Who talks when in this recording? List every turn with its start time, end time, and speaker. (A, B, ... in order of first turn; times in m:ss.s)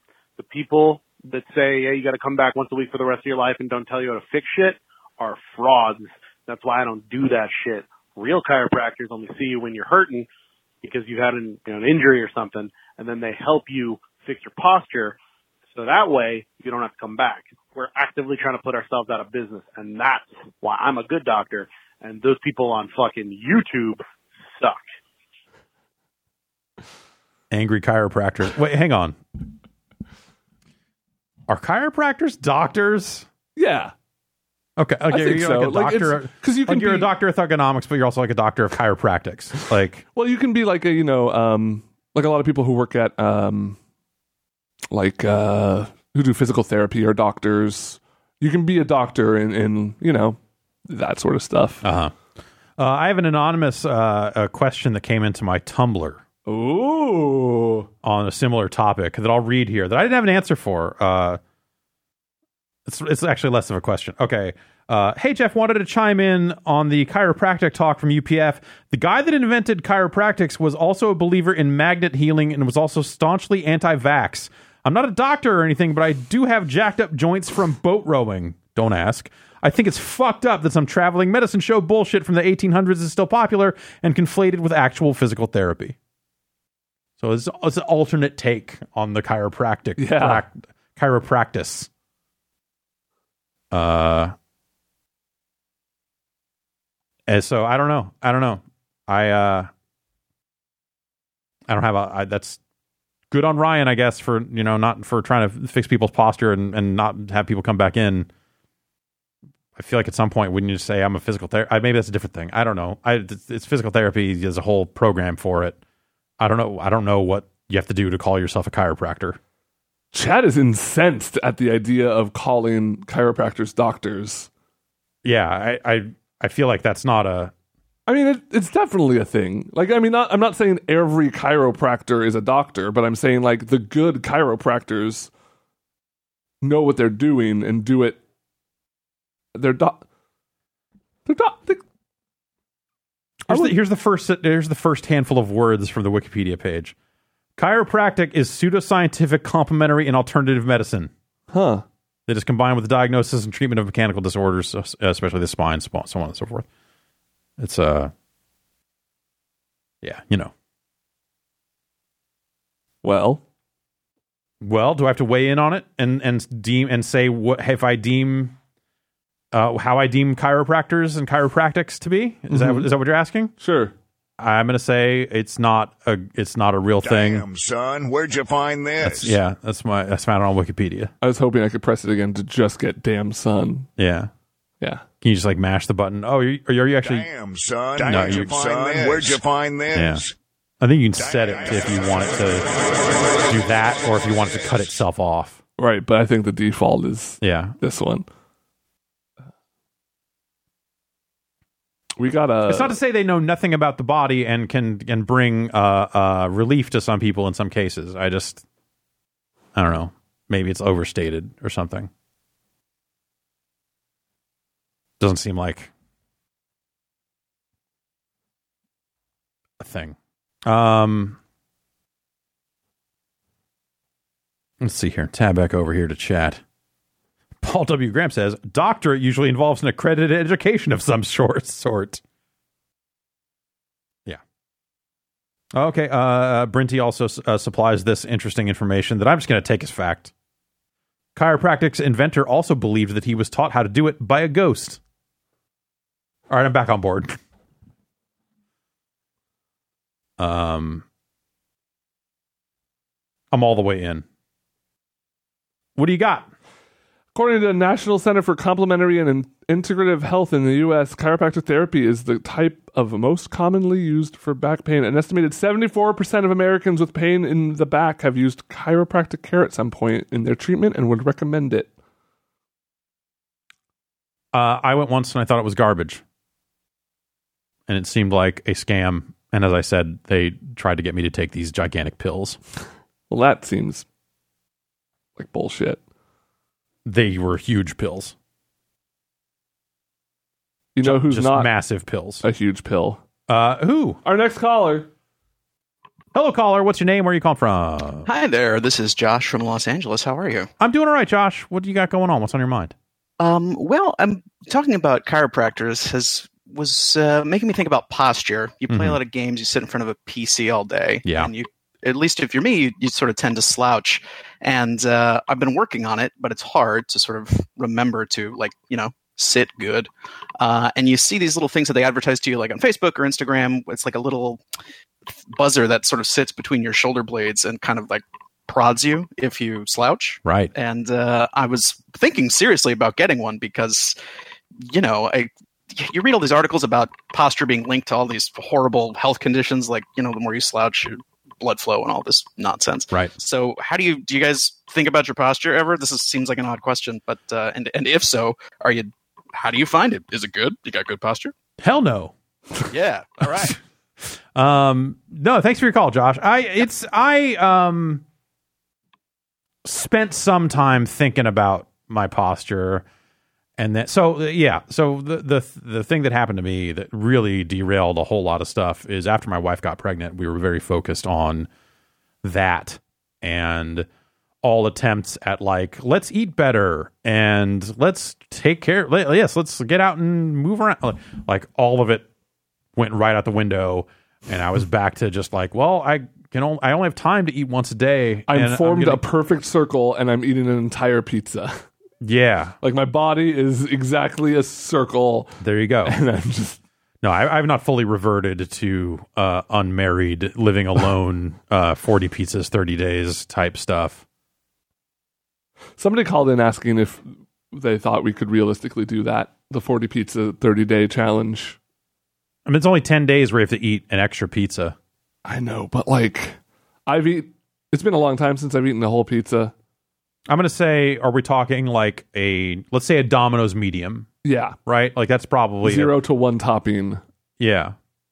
0:00.4-0:10.3 A
0:10.8-0:15.2 A
0:15.8-0:24.0 A
0:24.5-0:24.8 A
0:27.5-0:29.2 B
0:31.5-0:33.3 B
0:33.6-0:33.9 C
0:34.8-0:40.0 B
0:35.1-0:37.1 C
0:40.1-0:43.8 C
0:44.9-0:51.9 C
0:51.8-0:52.1 B
0:52.8-0:56.2 B
0:56.5-0:57.9 C
0:58.0-1:01.4 B
1:02.9-1:26.0 B
1:27.2-1:31.9 B
1:30.0-1:30.4 C
1:33.7-1:34.3 B
1:37.3-1:39.7 B
1:41.7-1:42.6 B
1:43.3-1:48.3 B
1:49.8-1:55.8 B
1:56.4-1:59.4 B
2:00.1-2:04.5 C
2:05.2-2:07.5 B
2:08.1-2:15.3 C
2:16.6-2:18.2 C
2:19.6-2:20.0 C
2:21.3-2:21.8 C
2:23.4-2:27.0 B
2:23.5-2:23.8 C
2:27.6-2:31.1 B
2:31.5-2:31.8 C
2:32.3-2:36.7 B
2:37.6-2:38.1 B
2:40.0-2:40.5 B
2:43.0-2:43.4 C
2:44.6-2:48.6 B
2:49.5-2:53.5 B
2:52.5-2:52.9 C
2:53.6-2:53.9 C
2:54.4-2:57.4 B
2:57.0-2:59.4 D
2:59.0-3:01.1 B
3:01.2-3:03.9 C
3:04.0-3:04.3 B
3:05.2-3:07.3 B
3:07.0-3:10.3 D
3:08.0-3:09.4 B
3:09.9-3:10.2 B
3:10.8-3:12.7 B
3:11.2-3:12.1 D
3:13.5-3:15.6 B
3:15.8-3:18.2 C
3:17.4-3:17.8 B
3:22.2-3:22.9 C
3:22.7-3:28.6 B
3:29.8-3:32.1 B
3:35.2-3:35.9 B
3:39.8-3:41.4 B
3:44.8-3:46.6 B
3:47.6-3:52.2 B
3:55.7-4:00.3 B
4:01.4-4:05.0 B
4:06.5-4:07.4 B
4:10.4-4:11.0 B
4:13.5-4:14.2 B
4:16.0-4:16.5 B
4:17.4-4:31.9 C
4:34.5-4:36.2 B
4:37.9-4:42.6 B
4:43.3-4:44.0 C
4:45.4-4:46.0 C
4:47.0-4:48.3 B
4:51.0-4:51.7 C
4:51.0-4:52.4 B
4:52.4-4:53.2 C
4:53.5-4:54.2 B
4:54.2-4:55.1 C
4:56.3-4:58.3 B
4:58.3-5:00.7 E
5:00.8-5:02.9 B
5:03.4-5:24.6 E
5:08.9-5:09.2 B
5:11.2-5:11.5 B
5:25.5-5:34.2 E
5:30.4-5:30.7 B
5:34.8-5:51.5 E
5:51.8-5:52.3 B
5:52.9-5:53.8 E
5:54.6-5:58.2 B
5:59.8-6:03.0 B
6:03.8-6:11.7 B
6:12.4-6:14.1 B
6:14.6-6:22.3 B
6:23.0-6:29.2 B
6:28.5-6:31.8 C
6:32.2-6:32.8 B
6:32.8-6:36.8 C
6:35.6-6:36.2 B
6:37.2-6:44.2 B
6:46.0-6:51.8 C
6:52.7-6:55.0 B
6:55.5-6:59.7 C
7:00.5-7:04.3 B
7:04.4-7:04.8 C
7:04.9-7:06.2 B
7:05.8-7:07.2 C
7:07.6-7:08.0 B